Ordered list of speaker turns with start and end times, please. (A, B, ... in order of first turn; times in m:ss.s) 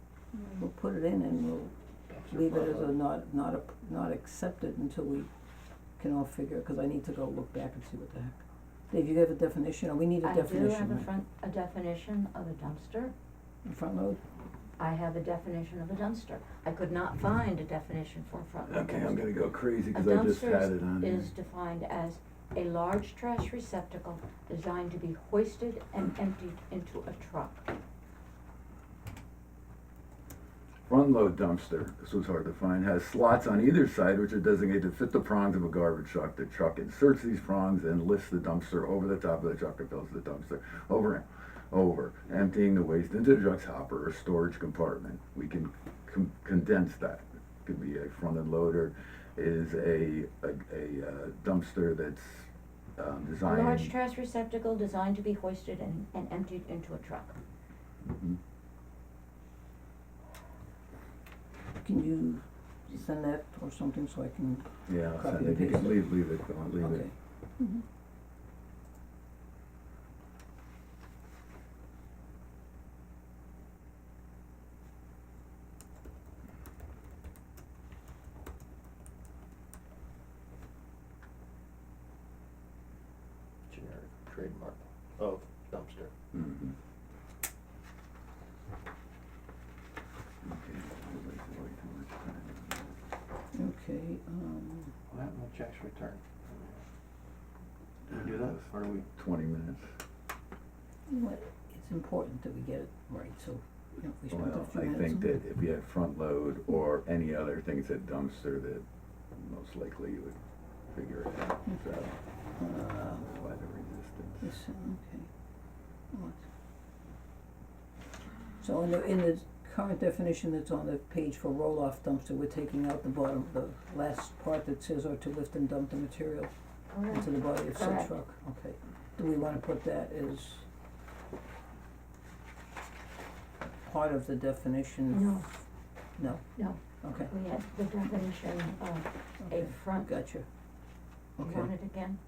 0:00.3-0:01.7 A
0:02.1-0:02.9 B
0:02.3-0:05.3 A
0:06.0-0:11.1 A
0:10.2-0:13.1 C
0:13.6-0:14.2 A
0:14.8-0:19.3 C
0:18.7-0:21.3 D
0:19.9-0:27.7 C
0:30.9-0:53.9 D
0:53.4-0:57.4 C
0:58.1-0:58.4 D
1:01.8-1:06.1 A
1:04.9-1:07.1 D
1:06.8-1:07.8 A
1:23.7-1:26.1 B
1:26.3-1:26.7 D
1:30.4-1:32.9 D
1:33.5-1:34.9 A
1:35.1-1:36.8 B
1:38.1-1:39.1 B
1:38.1-1:39.9 D
1:41.1-1:45.4 A
1:44.3-1:48.8 D
1:49.4-1:50.4 D
1:50.9-1:52.2 D
1:52.6-1:53.3 A
1:53.2-1:54.5 D
1:54.4-1:55.3 A
1:56.1-1:56.4 A
1:58.6-2:06.5 A
2:06.9-2:08.1 C
2:07.1-2:10.7 A
2:13.8-2:15.3 A
2:15.1-2:15.5 C
2:16.2-2:16.4 A
2:16.6-2:20.1 C
2:17.0-2:17.3 A
2:19.4-2:20.5 A
2:21.4-2:21.7 A
2:21.4-2:22.2 C